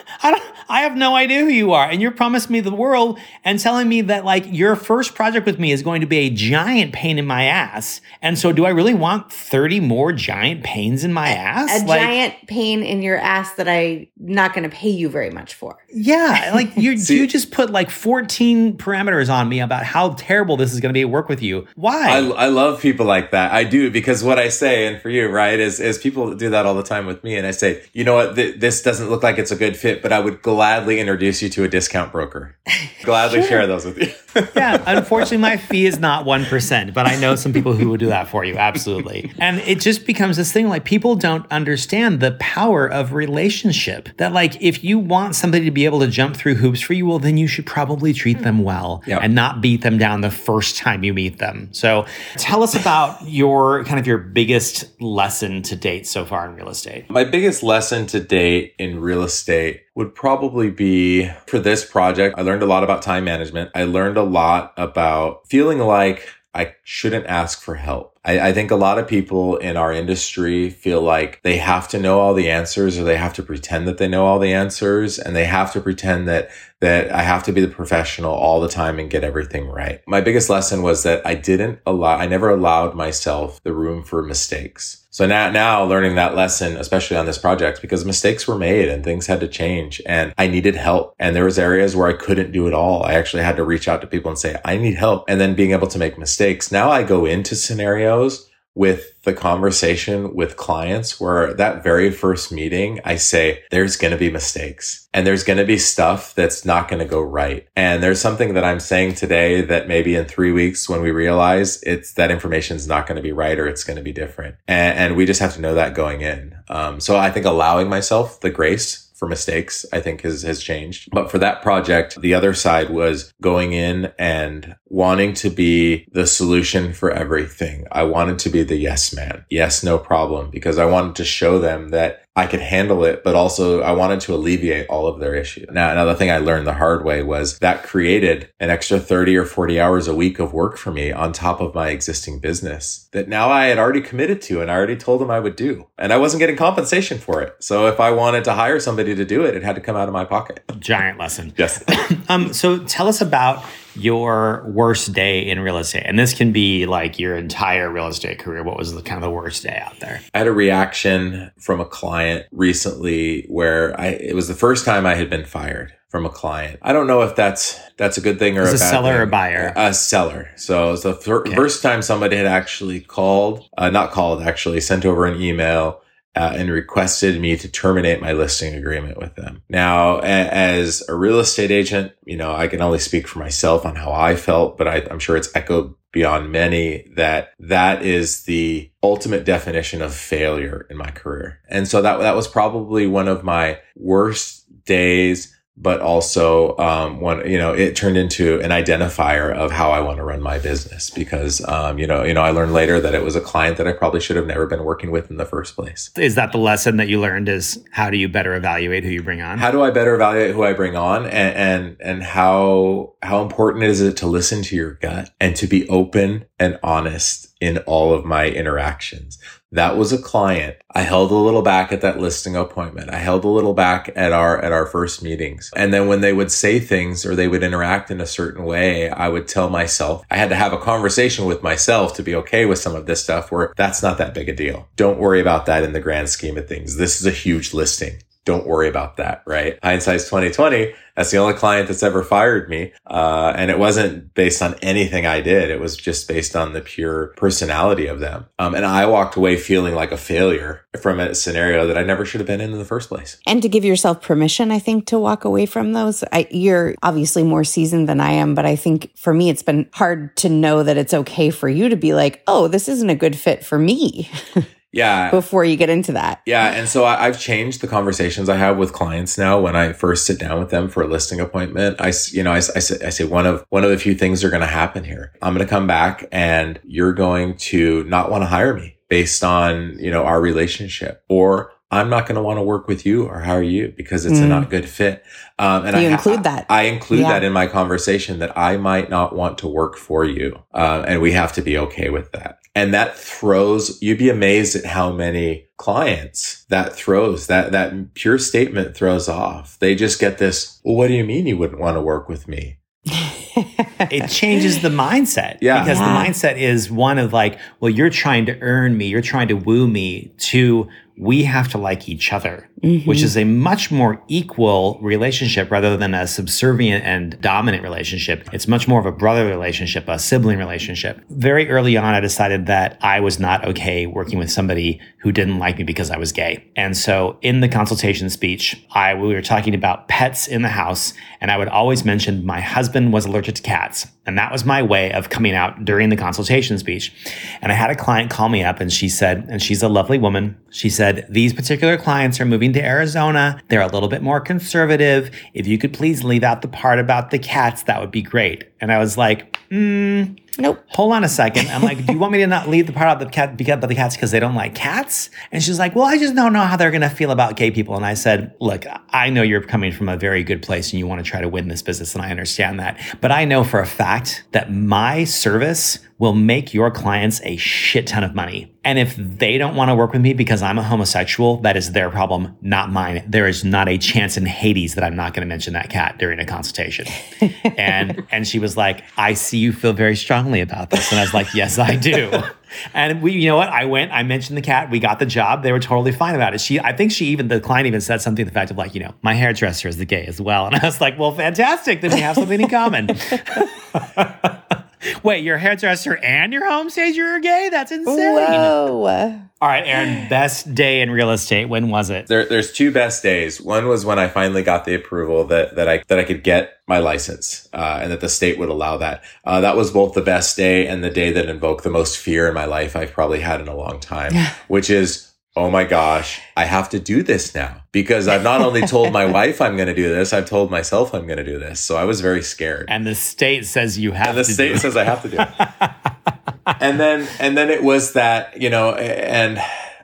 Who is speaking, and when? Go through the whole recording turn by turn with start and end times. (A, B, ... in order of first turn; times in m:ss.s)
0:00.2-0:12.1 A
0:11.7-0:15.8 B
0:15.9-0:22.3 A
0:17.0-0:17.3 C
0:22.1-0:35.3 C
0:34.5-0:57.1 A
0:57.1-2:30.7 C
2:30.7-2:40.2 A
2:31.6-2:31.8 C
2:40.3-3:26.1 C
2:48.6-2:49.8 A
3:26.2-3:29.7 A
3:29.6-4:13.4 C
4:13.5-4:24.6 B
4:24.9-4:25.4 C
4:25.3-4:26.4 B
4:26.5-5:02.8 C
4:44.3-4:44.7 B
4:45.9-4:47.4 B
5:03.2-5:04.1 B
5:04.1-5:50.4 A
5:05.6-5:06.0 C
5:05.8-5:06.3 B
5:12.8-5:13.3 B
5:50.9-6:34.6 A
6:35.1-6:38.9 A
6:38.1-6:39.5 B
6:39.6-6:42.3 A
6:42.3-7:02.9 C
7:02.9-7:05.9 A
7:04.2-7:05.6 C
7:06.8-7:09.7 C